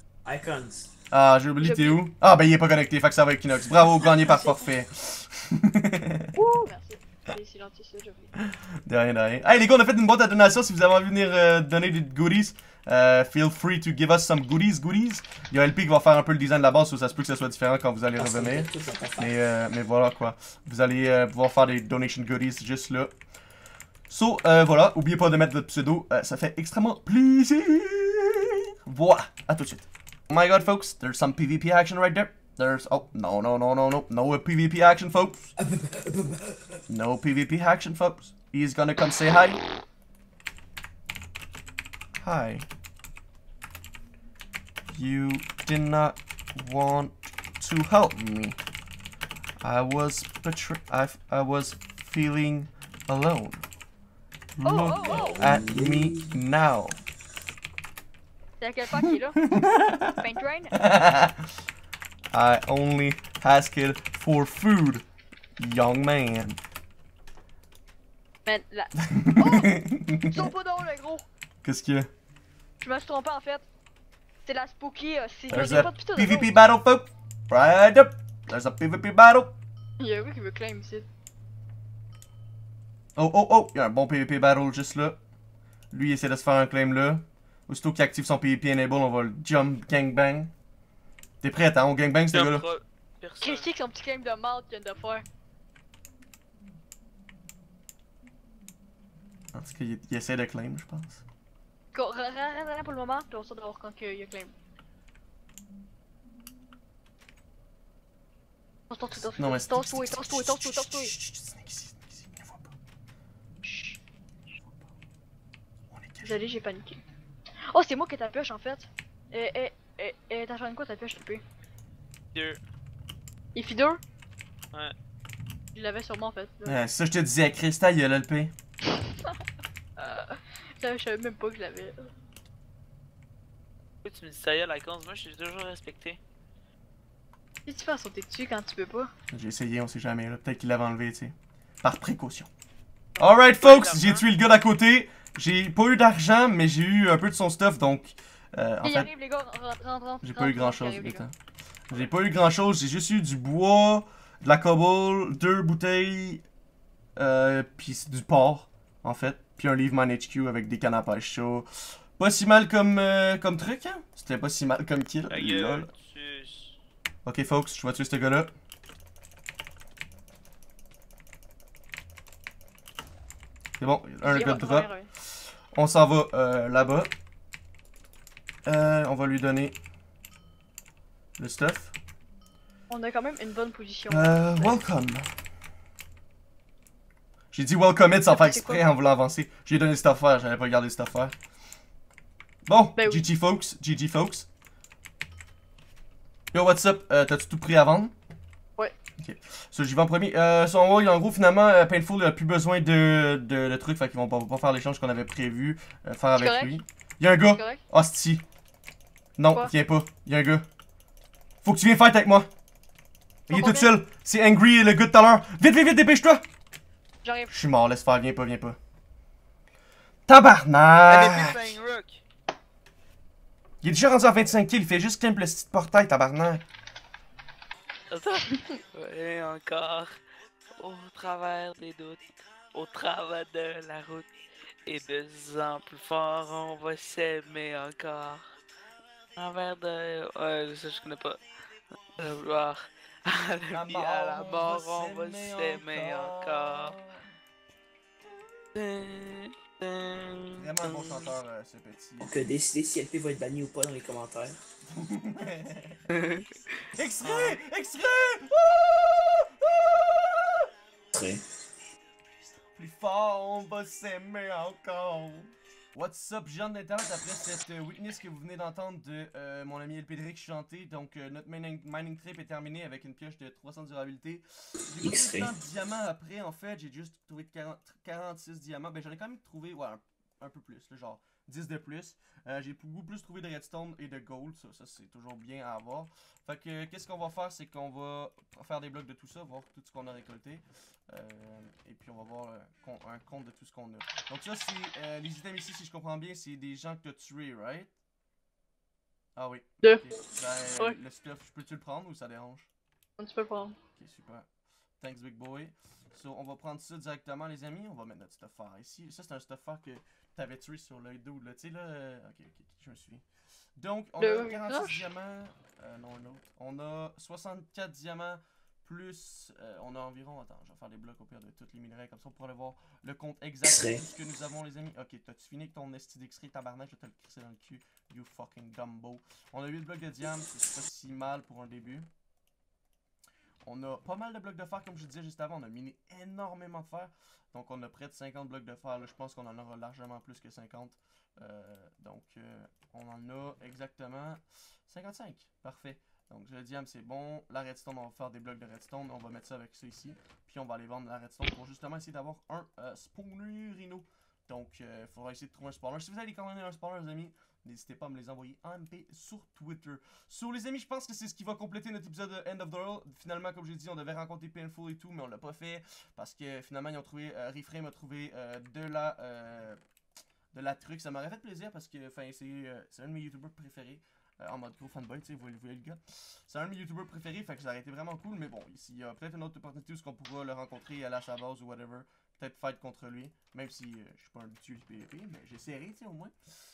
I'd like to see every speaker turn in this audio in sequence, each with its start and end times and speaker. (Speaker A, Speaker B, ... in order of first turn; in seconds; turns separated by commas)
Speaker A: 0.2-0.9, Speaker B: 1.1-6.3, Speaker C: 1.6-2.0, Speaker C: 4.1-4.7, Speaker C: 6.3-8.3, Speaker B: 8.4-23.1, Speaker A: 18.1-19.3, Speaker B: 24.1-35.5, Speaker A: 35.6-36.6, Speaker B: 36.9-39.6, Speaker B: 42.2-42.6, Speaker B: 44.9-48.6, Speaker B: 49.6-53.6, Speaker B: 54.6-57.0, Speaker C: 54.6-55.4, Speaker A: 55.0-56.4, Speaker C: 58.6-59.5, Speaker B: 59.4-60.1, Speaker C: 60.0-60.8, Speaker B: 60.7-61.5, Speaker B: 62.3-65.0, Speaker B: 65.6-66.6, Speaker C: 68.4-71.3, Speaker B: 69.1-70.5, Speaker B: 71.6-72.1, Speaker C: 72.8-73.7, Speaker C: 74.4-76.5, Speaker B: 75.5-79.5, Speaker C: 80.0-81.0, Speaker B: 83.2-85.2, Speaker B: 85.9-90.5, Speaker B: 91.4-92.7, Speaker D: 92.3-93.7, Speaker C: 93.4-95.2, Speaker B: 99.5-101.2, Speaker C: 101.9-104.5, Speaker C: 108.9-111.1, Speaker B: 109.3-112.7, Speaker C: 113.6-114.0, Speaker B: 115.9-116.4, Speaker C: 116.2-117.0, Speaker C: 117.7-121.4, Speaker D: 122.3-122.6, Speaker C: 123.5-124.0, Speaker C: 125.7-126.8, Speaker B: 126.6-128.5, Speaker C: 130.0-132.1, Speaker D: 134.0-136.2, Speaker C: 137.7-139.1, Speaker B: 139.3-142.5, Speaker B: 143.2-149.1, Speaker D: 143.6-144.2, Speaker C: 148.8-151.2, Speaker B: 150.2-151.3, Speaker B: 151.9-156.4, Speaker B: 157.2-165.9, Speaker D: 165.3-166.8, Speaker B: 167.2-168.5, Speaker B: 173.8-174.9, Speaker C: 174.2-175.1, Speaker B: 175.7-177.1, Speaker B: 178.7-179.7, Speaker B: 181.4-181.9, Speaker C: 182.9-184.8, Speaker B: 184.1-185.3, Speaker B: 187.5-191.3, Speaker C: 188.3-188.8, Speaker B: 192.7-194.5, Speaker C: 192.9-193.2, Speaker B: 196.5-198.1, Speaker B: 199.2-208.4, Speaker C: 206.3-206.8, Speaker C: 207.4-207.8, Speaker B: 209.4-210.7, Speaker B: 211.6-212.5, Speaker B: 213.5-216.4, Speaker C: 213.5-213.9, Speaker C: 217.2-217.5, Speaker B: 217.5-218.8, Speaker B: 220.3-221.8, Speaker D: 221.1-222.2, Speaker B: 223.8-226.6, Speaker D: 228.1-230.2, Speaker D: 230.8-234.3, Speaker D: 234.8-238.5, Speaker D: 239.3-241.4, Speaker D: 242.2-247.0, Speaker B: 243.7-247.3, Speaker D: 248.7-251.3, Speaker B: 250.5-252.3, Speaker A: 252.2-254.6, Speaker B: 254.9-256.0, Speaker D: 256.1-256.4, Speaker B: 256.9-260.7, Speaker D: 257.2-257.6, Speaker A: 261.1-261.4, Speaker B: 262.8-297.9, Speaker A: 275.0-275.5, Speaker B: 299.4-302.7, Speaker C: 303.2-303.8, Speaker B: 303.9-304.4, Speaker B: 305.0-313.2, Speaker B: 313.8-332.1, Speaker C: 314.2-315.1, Speaker A: 323.6-324.0, Speaker B: 333.6-369.8, Speaker B: 370.5-386.3